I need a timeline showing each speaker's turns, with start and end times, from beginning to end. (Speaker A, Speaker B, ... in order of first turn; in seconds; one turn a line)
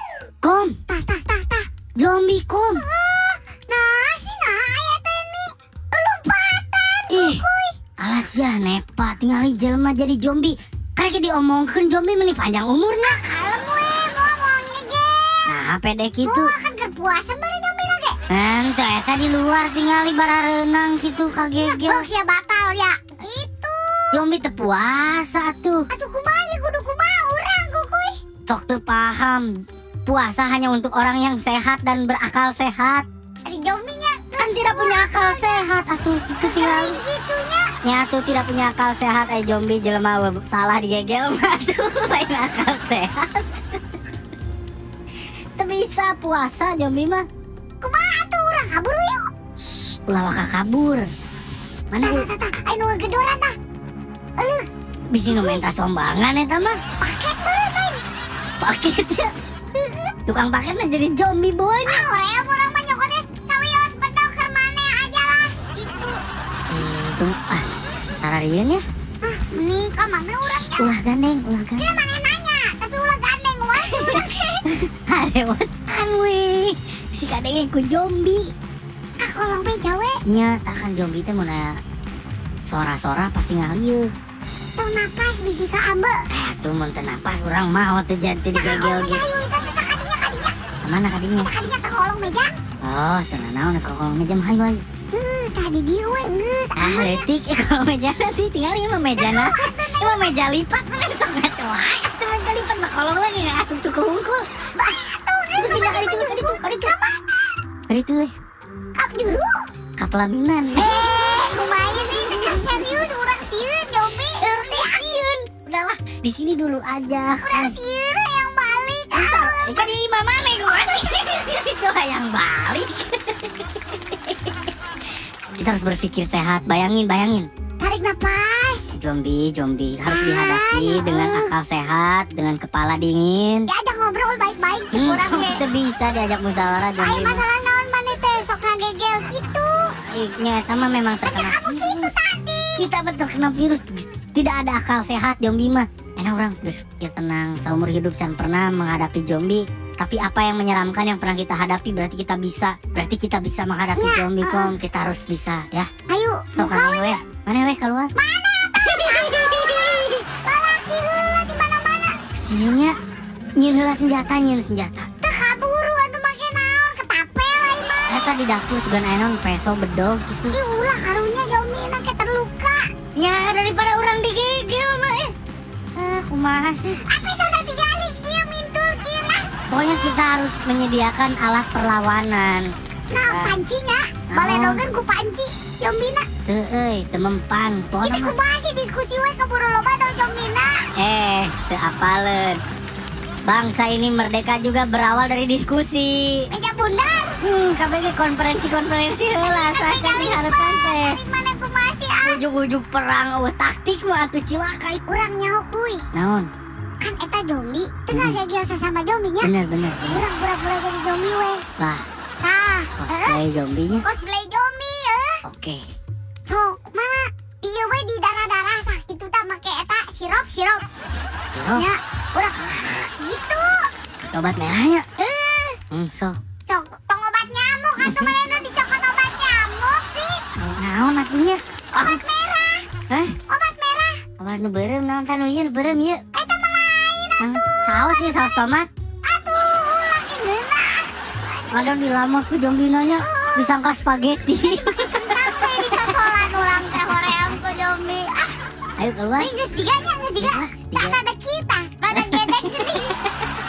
Speaker A: 0.4-0.8
Speaker B: 0.9-1.6
Speaker A: 2.0-2.9
Speaker B: 2.8-7.8
Speaker A: 7.1-7.4
Speaker A: 8.0-13.2
Speaker B: 13.0-15.5
Speaker A: 15.5-16.5
Speaker B: 16.2-18.2
Speaker A: 18.3-22.1
Speaker B: 21.6-24.2
Speaker A: 24.1-25.9
Speaker B: 25.9-28.2
Speaker A: 28.5-29.5
Speaker A: 30.1-33.1
Speaker B: 33.5-35.7
Speaker A: 34.4-37.0
Speaker B: 36.4-37.7
Speaker A: 37.8-43.5
Speaker A: 45.6-47.2
Speaker B: 47.8-49.2
Speaker A: 49.8-51.1
Speaker A: 51.9-52.3
Speaker B: 52.0-53.5
Speaker B: 54.4-54.7
Speaker A: 55.1-56.8
Speaker B: 55.3-55.6
Speaker B: 57.0-58.0
Speaker A: 58.6-59.3
Speaker B: 59.8-60.1
Speaker A: 60.3-62.1
Speaker B: 61.8-66.2
Speaker A: 66.7-67.7
Speaker A: 68.2-68.8
Speaker B: 69.2-70.9
Speaker A: 70.6-72.0
Speaker B: 71.8-74.7
Speaker A: 73.8-78.5
Speaker B: 79.2-80.2
Speaker A: 80.3-81.8
Speaker A: 82.7-84.1
Speaker B: 84.8-86.2
Speaker A: 86.3-89.2
Speaker B: 88.5-90.5
Speaker A: 90.8-91.5
Speaker B: 91.4-92.5
Speaker A: 92.8-94.8
Speaker B: 95.1-97.2
Speaker A: 96.8-104.5
Speaker B: 99.2-100.4
Speaker B: 104.7-107.2
Speaker A: 105.6-106.9
Speaker A: 107.9-108.3
Speaker B: 109.0-109.6
Speaker A: 110.0-111.1
Speaker B: 110.8-115.2
Speaker A: 112.1-113.0
Speaker A: 114.0-117.8
Speaker B: 117.4-119.9
Speaker A: 119.1-124.4
Speaker A: 125.5-127.5
Speaker B: 127.8-129.0
Speaker A: 128.9-133.7
Speaker B: 130.1-131.5
Speaker B: 133.7-135.6
Speaker A: 134.9-137.4
Speaker B: 137.0-139.8
Speaker A: 140.1-142.2
Speaker B: 141.3-142.9
Speaker A: 142.8-155.9
Speaker B: 153.9-154.7
Speaker B: 156.1-157.2
Speaker A: 156.6-158.1
Speaker B: 158.2-162.2
Speaker A: 158.8-160.2
Speaker A: 162.3-162.9
Speaker A: 163.6-165.1
Speaker B: 165.2-168.3
Speaker A: 168.1-170.6
Speaker B: 170.5-172.8
Speaker A: 173.2-175.3
Speaker A: 176.0-177.0
Speaker B: 176.9-180.2
Speaker A: 179.7-182.7
Speaker B: 183.1-186.3
Speaker A: 183.3-183.6
Speaker A: 184.3-184.8
Speaker A: 186.5-188.4
Speaker B: 188.0-190.8
Speaker A: 191.0-192.6
Speaker A: 193.5-196.5
Speaker B: 196.5-197.4
Speaker A: 197.4-201.2
Speaker B: 199.4-202.4
Speaker A: 202.2-205.0
Speaker B: 205.1-206.1
Speaker A: 206.1-206.5
Speaker B: 207.0-209.5
Speaker A: 208.1-208.4
Speaker A: 209.4-210.3
Speaker B: 210.1-211.7
Speaker A: 211.8-212.1
Speaker B: 212.4-213.4
Speaker A: 213.0-214.0
Speaker B: 214.0-215.4
Speaker A: 215.4-215.8
Speaker B: 216.5-220.8
Speaker A: 221.5-221.9
Speaker B: 221.8-223.9
Speaker A: 224.2-225.1
Speaker B: 225.2-225.8
Speaker A: 225.9-226.4
Speaker B: 226.7-230.4
Speaker A: 228.0-228.3
Speaker A: 230.6-232.2
Speaker B: 232.0-232.9
Speaker A: 233.1-233.4
Speaker B: 233.5-234.2
Speaker A: 234.4-236.2
Speaker B: 236.3-238.4
Speaker A: 237.4-238.9
Speaker B: 239.2-241.9
Speaker A: 241.7-246.3
Speaker B: 243.2-243.8
Speaker B: 244.6-248.6
Speaker A: 247.0-247.4
Speaker A: 249.0-249.5
Speaker B: 249.4-253.2
Speaker A: 250.4-251.2
Speaker A: 252.2-253.1